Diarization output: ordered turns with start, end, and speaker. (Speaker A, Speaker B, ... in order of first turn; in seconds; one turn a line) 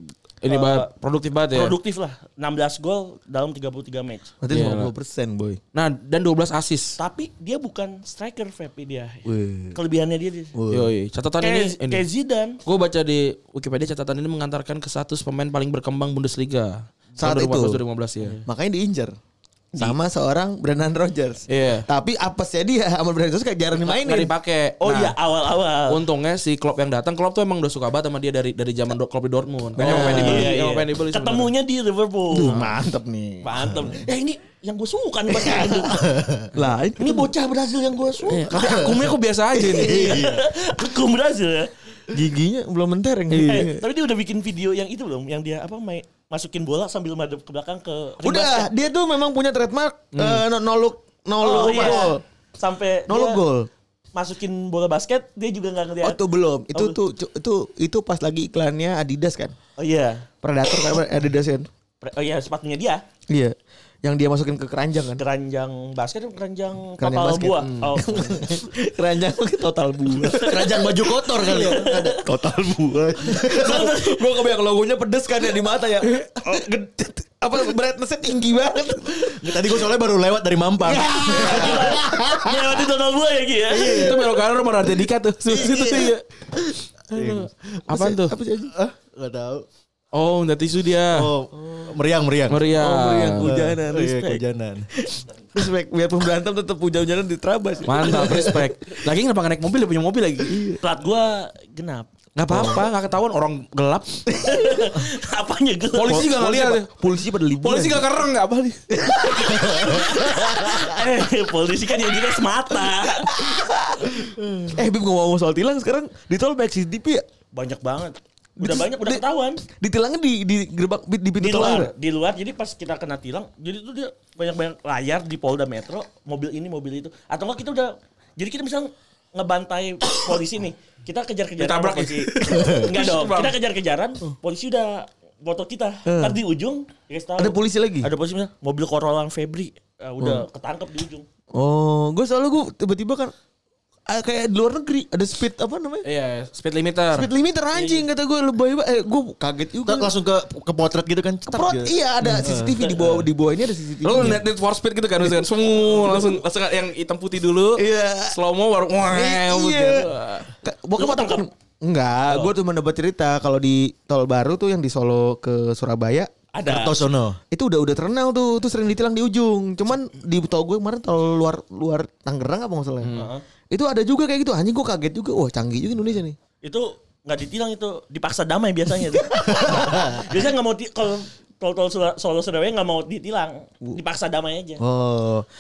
Speaker A: 0.4-1.8
Speaker B: 0.5-0.9
Speaker B: 1.5-4.3
Speaker C: 4.4-5.6
Speaker A: 4.5-4.9
Speaker A: 5.7-7.0
Speaker B: 7.0-10.5
Speaker D: 9.3-9.7
Speaker D: 10.6-10.8
Speaker A: 10.7-12.0
Speaker B: 11.4-12.6
Speaker A: 12.7-18.4
Speaker C: 17.2-17.8
Speaker C: 18.4-19.1
Speaker C: 19.8-24.3
Speaker A: 21.5-21.9
Speaker A: 23.8-25.1
Speaker B: 24.8-26.0
Speaker A: 25.9-31.5
Speaker C: 29.8-30.6
Speaker B: 29.8-32.7
Speaker C: 32.3-34.0
Speaker B: 33.4-36.2
Speaker C: 35.3-35.9
Speaker C: 36.5-37.3
Speaker B: 37.0-38.6
Speaker C: 38.2-40.4
Speaker A: 38.4-40.2
Speaker B: 39.8-41.7
Speaker C: 42.1-43.9
Speaker B: 43.3-48.7
Speaker C: 48.2-52.2
Speaker A: 50.1-50.4
Speaker B: 51.4-53.4
Speaker C: 53.1-53.7
Speaker B: 54.1-56.2
Speaker C: 56.0-59.5
Speaker B: 59.8-60.3
Speaker C: 60.4-61.7
Speaker B: 62.0-63.0
Speaker C: 63.3-65.2
Speaker B: 65.2-68.5
Speaker C: 67.0-70.9
Speaker B: 70.2-72.2
Speaker D: 70.4-72.3
Speaker C: 71.4-79.8
Speaker B: 73.3-74.2
Speaker D: 73.3-73.9
Speaker D: 79.2-82.2
Speaker C: 80.8-82.7
Speaker B: 81.1-84.1
Speaker C: 83.7-84.3
Speaker A: 83.8-86.2
Speaker D: 83.8-84.3
Speaker C: 85.5-88.8
Speaker D: 87.1-87.5
Speaker A: 87.1-88.4
Speaker D: 88.7-89.7
Speaker A: 90.1-91.3
Speaker D: 91.1-92.8
Speaker C: 91.6-92.0
Speaker A: 92.5-93.5
Speaker C: 92.7-94.4
Speaker D: 93.4-94.9
Speaker C: 95.0-98.7
Speaker A: 97.8-100.6
Speaker C: 100.5-100.8
Speaker B: 100.8-102.1
Speaker A: 102.4-104.6
Speaker C: 102.5-102.8
Speaker B: 104.4-106.3
Speaker A: 105.9-107.0
Speaker C: 106.1-108.1
Speaker A: 107.6-109.3
Speaker B: 109.2-113.5
Speaker C: 109.2-110.9
Speaker C: 113.3-117.2
Speaker B: 117.5-119.6
Speaker C: 118.6-121.9
Speaker B: 121.4-141.3
Speaker A: 131.6-133.6
Speaker C: 136.1-136.4
Speaker C: 137.4-138.1
Speaker C: 141.5-143.3
Speaker C: 144.1-146.1
Speaker A: 146.0-147.3
Speaker C: 147.1-150.1
Speaker B: 147.8-148.0
Speaker D: 149.8-152.8
Speaker C: 151.5-154.4
Speaker A: 154.0-160.5
Speaker C: 155.9-156.4
Speaker C: 157.8-158.4
Speaker C: 159.1-166.3
Speaker B: 161.0-161.5
Speaker B: 166.5-167.1
Speaker D: 166.7-167.4
Speaker C: 167.5-173.2
Speaker A: 173.0-173.3
Speaker B: 173.1-173.4
Speaker C: 173.7-176.4
Speaker B: 176.6-184.8
Speaker C: 179.6-180.2
Speaker D: 179.8-180.2
Speaker C: 184.8-185.5